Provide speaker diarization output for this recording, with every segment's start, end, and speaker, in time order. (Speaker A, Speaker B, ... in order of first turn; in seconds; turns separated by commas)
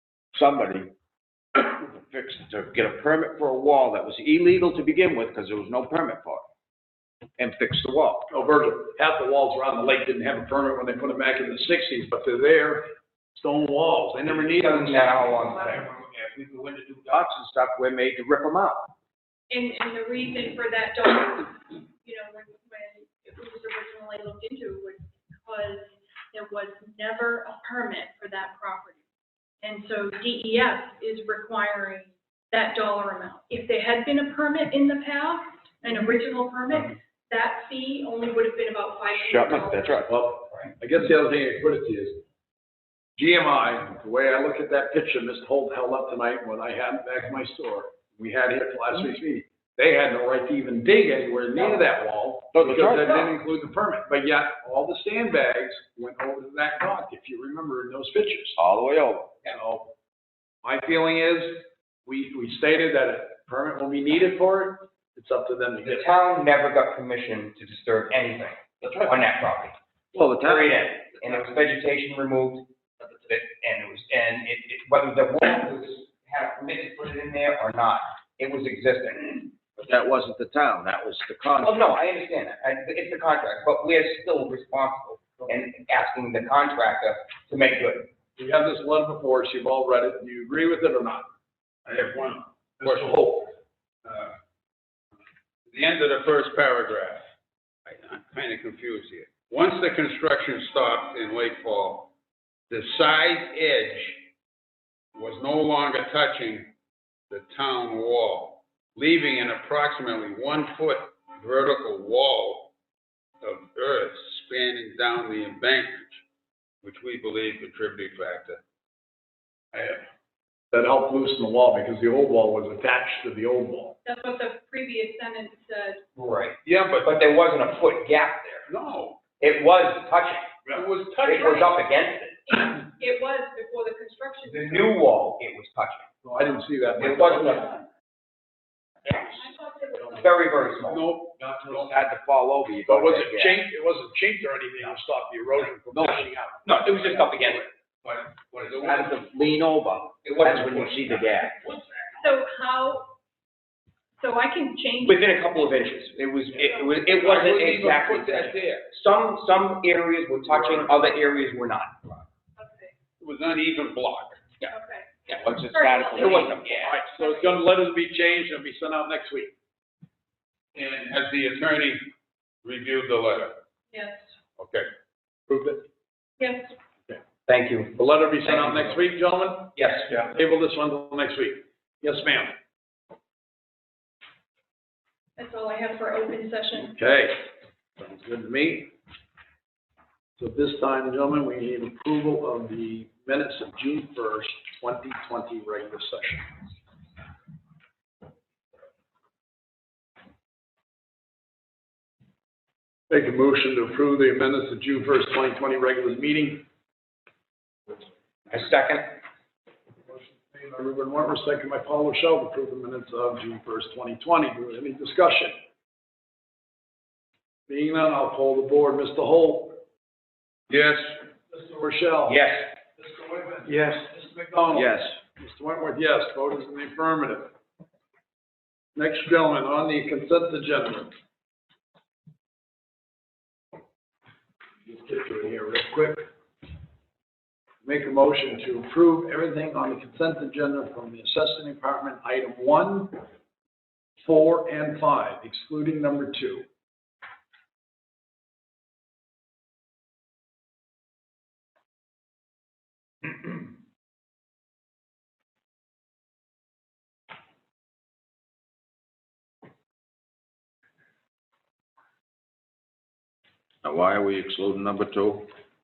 Speaker A: 0.3-0.9, Speaker A: 1.5-6.4, Speaker A: 7.4-8.3, Speaker B: 8.3-15.5, Speaker C: 14.2-15.8, Speaker A: 15.4-18.9, Speaker D: 19.5-29.0, Speaker D: 29.6-40.1, Speaker A: 39.1-40.1, Speaker B: 40.1-42.2, Speaker B: 43.2-58.6, Speaker A: 52.5-53.3, Speaker A: 58.6-59.4, Speaker B: 59.5-59.9, Speaker B: 60.6-66.1, Speaker C: 65.8-69.8, Speaker A: 68.8-69.2, Speaker A: 70.1-71.4, Speaker C: 70.4-72.7, Speaker C: 73.3-79.6, Speaker A: 79.8-81.8, Speaker C: 81.6-88.1, Speaker B: 88.4-91.3, Speaker E: 91.8-93.4, Speaker B: 92.8-93.5, Speaker E: 94.0-94.3, Speaker E: 95.7-97.2, Speaker E: 97.8-102.1, Speaker E: 102.7-104.2, Speaker E: 105.1-106.7, Speaker E: 107.3-112.7, Speaker E: 113.4-116.2, Speaker E: 116.8-118.6, Speaker B: 119.7-120.0, Speaker B: 120.7-124.0, Speaker D: 124.0-126.0, Speaker C: 126.2-128.7, Speaker E: 126.6-127.2, Speaker E: 128.7-129.2, Speaker C: 129.4-130.5, Speaker E: 130.7-131.8, Speaker C: 131.2-132.4, Speaker D: 132.5-134.9, Speaker C: 134.4-136.1, Speaker B: 136.2-137.7, Speaker C: 137.0-137.7, Speaker D: 139.1-140.7, Speaker C: 140.1-141.1, Speaker E: 141.0-141.9, Speaker A: 141.3-143.6, Speaker B: 142.8-146.6, Speaker A: 145.9-146.2, Speaker C: 146.6-147.7, Speaker A: 148.1-151.6, Speaker E: 148.6-149.3, Speaker C: 150.2-151.3, Speaker D: 152.2-153.1, Speaker D: 154.2-155.2, Speaker C: 155.0-162.2, Speaker E: 156.6-158.9, Speaker E: 160.5-161.3, Speaker D: 162.6-162.9, Speaker E: 163.2-164.4, Speaker D: 164.7-167.6, Speaker A: 165.4-166.7, Speaker C: 166.2-166.9, Speaker B: 166.3-169.5, Speaker E: 170.7-172.1, Speaker E: 172.6-173.6, Speaker D: 173.9-174.3, Speaker E: 174.6-174.9, Speaker B: 175.5-175.8, Speaker D: 176.4-176.7, Speaker C: 177.5-179.0, Speaker B: 178.0-182.6, Speaker C: 179.8-180.1, Speaker D: 185.4-186.9, Speaker B: 186.9-187.4, Speaker B: 188.0-188.9, Speaker B: 190.4-196.7, Speaker B: 203.1-206.7, Speaker C: 208.5-209.2, Speaker B: 210.1-215.5, Speaker B: 217.7-219.8, Speaker B: 220.7-222.4, Speaker C: 222.3-222.6, Speaker B: 223.0-227.5, Speaker A: 224.7-225.1, Speaker B: 228.9-231.1, Speaker B: 234.8-236.3, Speaker B: 237.8-243.2, Speaker B: 244.2-246.7, Speaker A: 263.8-265.5